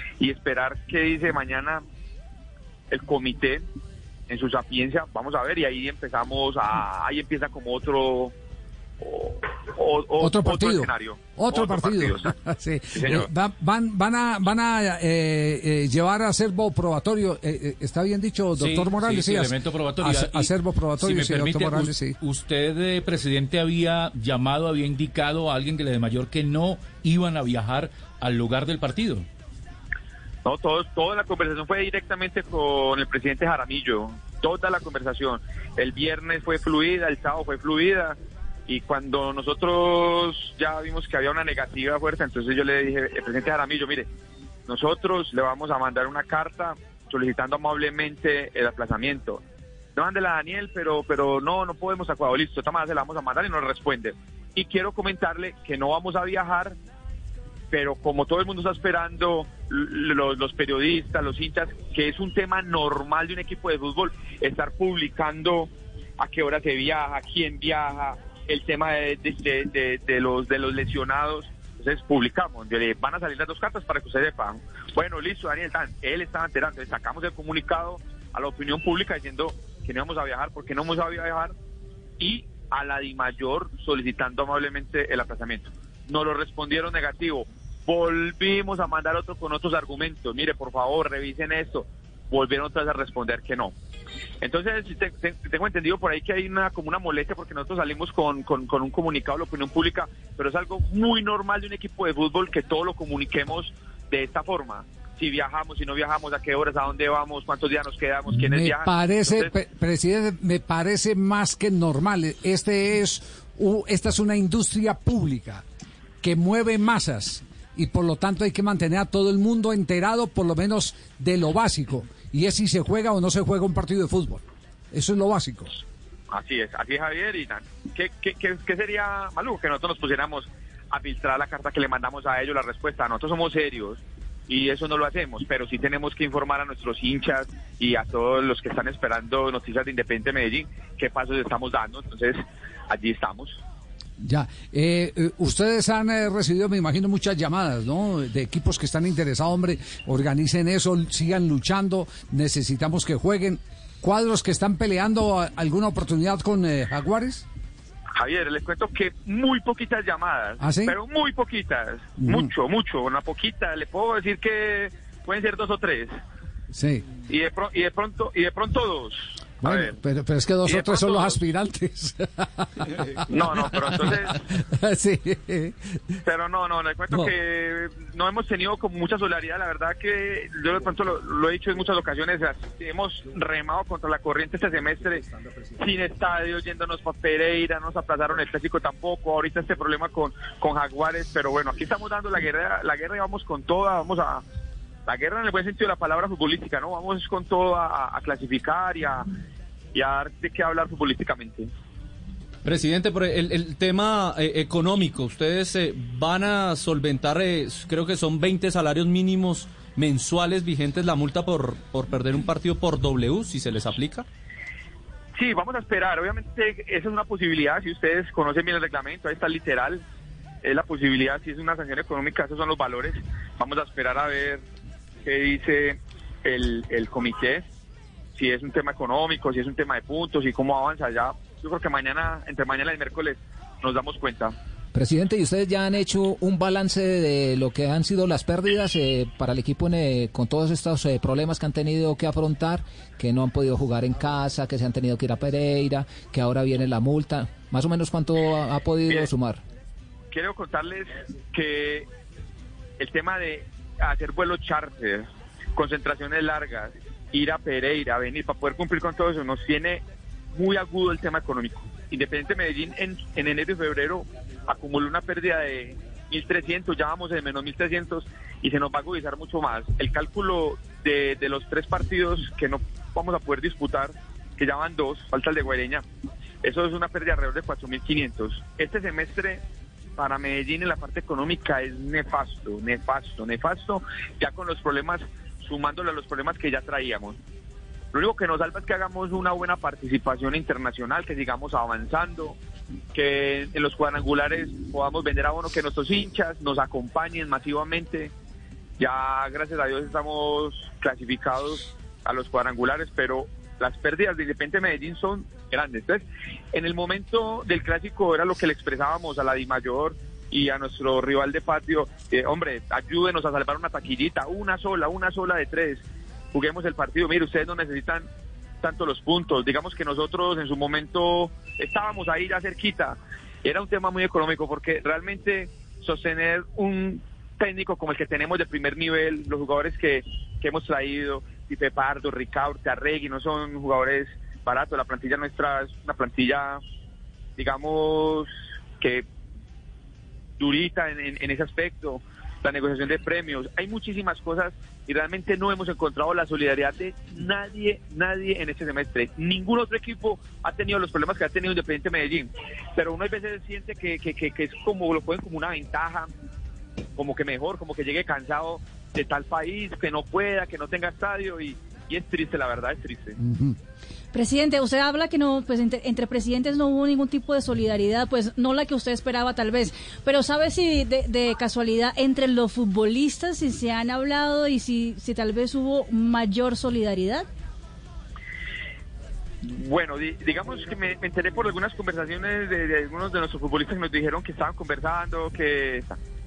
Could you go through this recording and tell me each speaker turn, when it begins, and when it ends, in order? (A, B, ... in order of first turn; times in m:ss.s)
0:00.2-0:01.8 A
0:02.9-0:03.6 A
0:04.3-0:08.3 A
0:09.0-0:12.3 A
0:10.2-0:22.2 B
0:12.9-0:13.3 A
0:18.6-0:29.2 C
0:30.4-0:44.1 A
0:44.7-0:49.4 A
0:49.9-0:56.8 A
0:57.7-1:21.5 A
1:22.2-1:33.7 A
1:34.4-1:49.5 A
1:48.3-1:55.6 B
1:56.2-2:05.8 B
2:06.3-2:23.6 A
2:24.2-2:37.4 B
2:38.2-2:46.1 A
2:40.6-2:40.9 B
2:42.2-2:42.5 B
2:46.7-2:47.0 B
2:47.3-2:50.0 A
2:49.6-2:56.0 B
2:50.6-2:51.4 A
2:53.3-2:54.4 A
2:56.2-3:05.2 A
3:05.8-3:14.4 A
3:15.0-3:19.3 A
3:19.9-3:21.7 A
3:22.6-3:34.2 D
3:35.4-3:40.0 A
3:40.6-3:44.6 A
3:45.2-3:47.6 A
3:48.4-3:54.5 A
3:54.9-4:09.6 E
4:10.3-4:12.1 A
4:13.0-4:36.0 A
4:36.6-4:39.6 A
4:40.2-4:47.4 A
4:48.1-4:52.6 A
4:53.1-4:58.3 A
4:59.0-5:18.3 A
5:18.8-5:36.8 A
5:37.6-5:38.5 A
5:40.6-5:56.3 A
5:57.2-6:03.4 A
6:03.4-6:03.8 B
6:04.3-6:17.5 F
6:19.6-6:26.2 A